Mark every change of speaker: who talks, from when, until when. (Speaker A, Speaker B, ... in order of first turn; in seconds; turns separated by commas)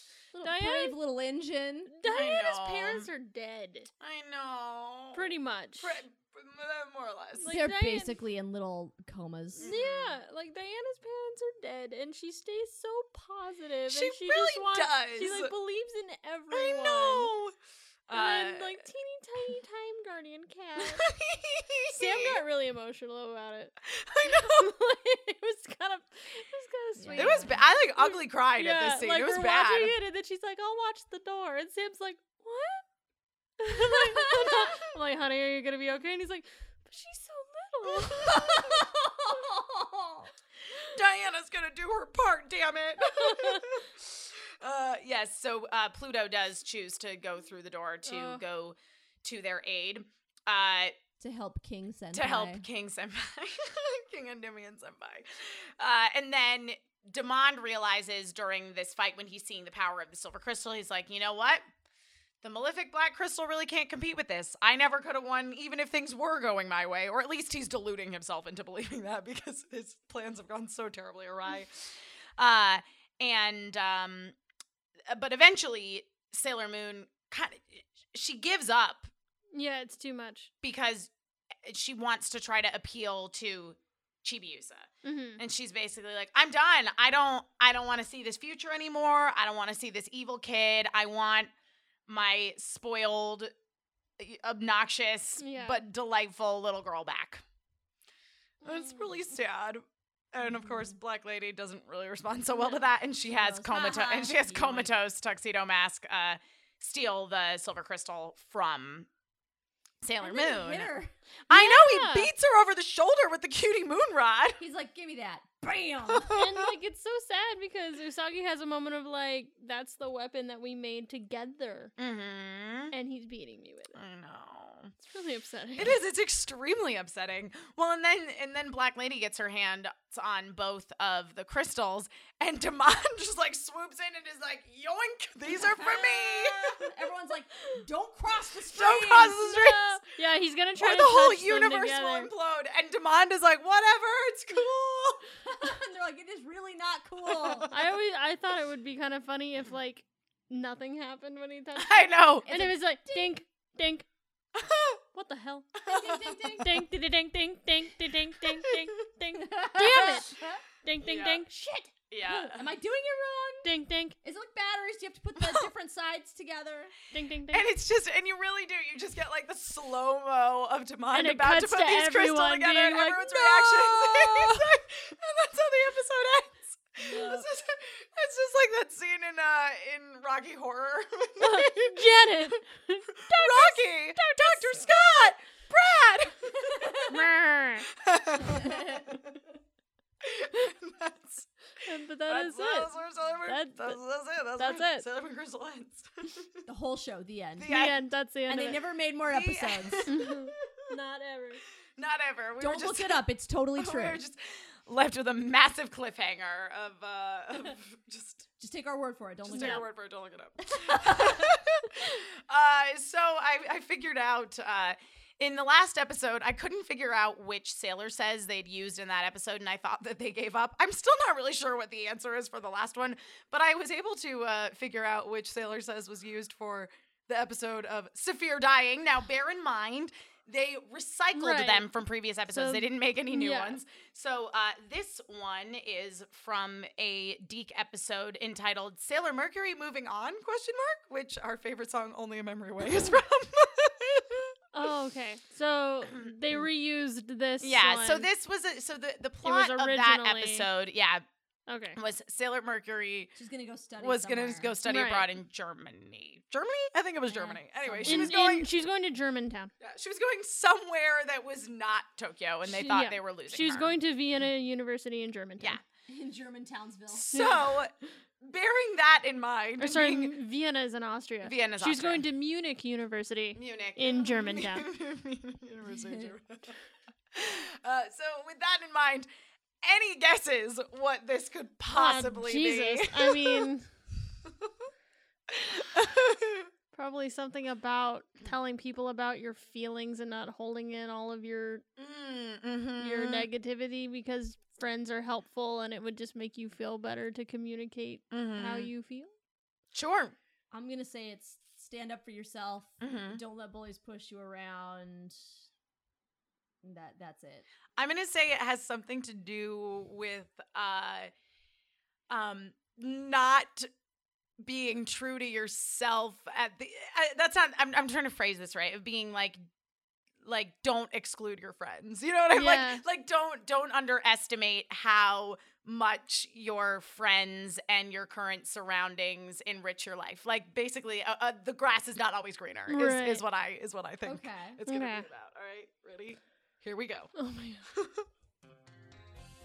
Speaker A: 0.3-1.9, Speaker B: 0.4-1.0, Speaker B: 1.9-3.9, Speaker C: 2.0-3.1, Speaker C: 4.0-5.3, Speaker B: 5.1-6.0, Speaker C: 5.8-7.5, Speaker B: 7.4-8.2, Speaker A: 7.5-9.7, Speaker C: 9.5-10.2, Speaker B: 9.6-17.3, Speaker C: 13.9-15.5, Speaker C: 16.5-17.5, Speaker C: 18.1-18.8, Speaker B: 18.1-21.1, Speaker C: 20.8-22.4, Speaker B: 21.9-32.8, Speaker C: 23.9-24.7, Speaker A: 27.0-27.6, Speaker C: 27.2-29.9, Speaker B: 33.6-38.7, Speaker A: 33.9-34.7, Speaker C: 37.8-38.6, Speaker A: 38.3-40.3, Speaker C: 40.7-50.9, Speaker B: 43.0-43.6, Speaker B: 48.0-48.4, Speaker A: 51.2-52.6, Speaker C: 52.1-61.6, Speaker C: 62.4-74.3, Speaker C: 75.1-79.1, Speaker B: 79.5-80.5, Speaker C: 80.6-81.1, Speaker C: 81.6-91.5, Speaker B: 85.0-85.4, Speaker C: 92.1-93.5, Speaker C: 94.2-97.4, Speaker B: 95.4-95.8, Speaker C: 98.6-109.1, Speaker B: 98.7-99.0, Speaker A: 100.7-100.9, Speaker A: 103.2-104.9, Speaker C: 110.0-110.9, Speaker A: 110.2-111.1, Speaker C: 111.5-114.6, Speaker B: 111.5-112.3, Speaker A: 114.6-116.4, Speaker C: 116.1-116.6, Speaker B: 116.3-121.9, Speaker C: 122.0-122.9, Speaker B: 122.9-124.0, Speaker C: 123.9-124.9, Speaker B: 125.0-126.0, Speaker C: 125.8-136.8, Speaker A: 135.5-139.5, Speaker C: 138.7-140.0, Speaker B: 139.3-142.3, Speaker C: 140.8-145.2, Speaker A: 145.4-147.7, Speaker C: 147.3-147.7, Speaker B: 147.7-154.0, Speaker C: 151.8-152.5, Speaker A: 152.5-153.4, Speaker C: 154.6-155.0, Speaker B: 155.1-161.6, Speaker A: 155.9-156.8, Speaker C: 155.9-156.3, Speaker A: 159.4-160.6, Speaker C: 159.9-160.2, Speaker C: 161.0-161.4, Speaker A: 161.5-166.9, Speaker C: 162.1-162.7, Speaker B: 163.6-164.2, Speaker C: 165.4-165.7, Speaker B: 167.1-167.7, Speaker C: 167.5-182.1, Speaker B: 171.1-173.5, Speaker A: 173.5-174.6, Speaker B: 177.0-177.4, Speaker B: 181.4-184.8, Speaker C: 183.2-187.2, Speaker B: 187.1-187.9, Speaker C: 187.9-189.3, Speaker A: 188.6-188.9, Speaker C: 190.2-196.6, Speaker B: 191.8-192.9, Speaker B: 193.4-194.0, Speaker B: 194.6-195.1, Speaker A: 196.7-197.7, Speaker C: 197.6-198.0, Speaker B: 197.7-198.8, Speaker A: 198.5-200.1, Speaker C: 199.3-200.8, Speaker B: 200.1-201.6, Speaker C: 202.0-203.2, Speaker A: 202.6-204.2, Speaker C: 203.8-208.4, Speaker A: 208.6-209.8, Speaker C: 209.5-244.5, Speaker B: 209.5-209.8, Speaker A: 210.6-211.6, Speaker B: 231.3-231.9, Speaker B: 232.5-233.8, Speaker B: 244.7-248.3, Speaker C: 247.6-251.2, Speaker B: 249.4-250.7, Speaker B: 251.7-252.0, Speaker C: 251.9-253.3, Speaker A: 253.3-254.8, Speaker C: 254.0-258.7, Speaker B: 254.8-255.3, Speaker A: 257.3-258.4, Speaker B: 258.0-259.7, Speaker C: 259.8-263.9, Speaker B: 262.6-265.8, Speaker A: 266.1-267.3, Speaker C: 267.1-270.3, Speaker B: 267.3-267.8, Speaker B: 269.8-274.9, Speaker C: 271.4-272.2, Speaker C: 273.5-276.8, Speaker A: 275.9-276.3, Speaker C: 277.3-279.3, Speaker C: 279.8-283.7, Speaker B: 281.9-283.9, Speaker C: 285.5-286.7, Speaker B: 286.9-291.8, Speaker C: 292.0-293.5, Speaker B: 293.0-299.3, Speaker C: 298.3-298.9, Speaker C: 299.9-300.3, Speaker A: 300.7-305.4, Speaker C: 303.0-303.4, Speaker A: 306.8-307.6, Speaker C: 307.9-311.3, Speaker C: 312.3-313.9, Speaker C: 314.6-319.6, Speaker C: 320.4-337.3, Speaker B: 322.5-323.0, Speaker B: 332.9-333.4, Speaker A: 334.2-334.8, Speaker B: 334.9-335.3, Speaker B: 337.3-337.8, Speaker C: 337.9-338.2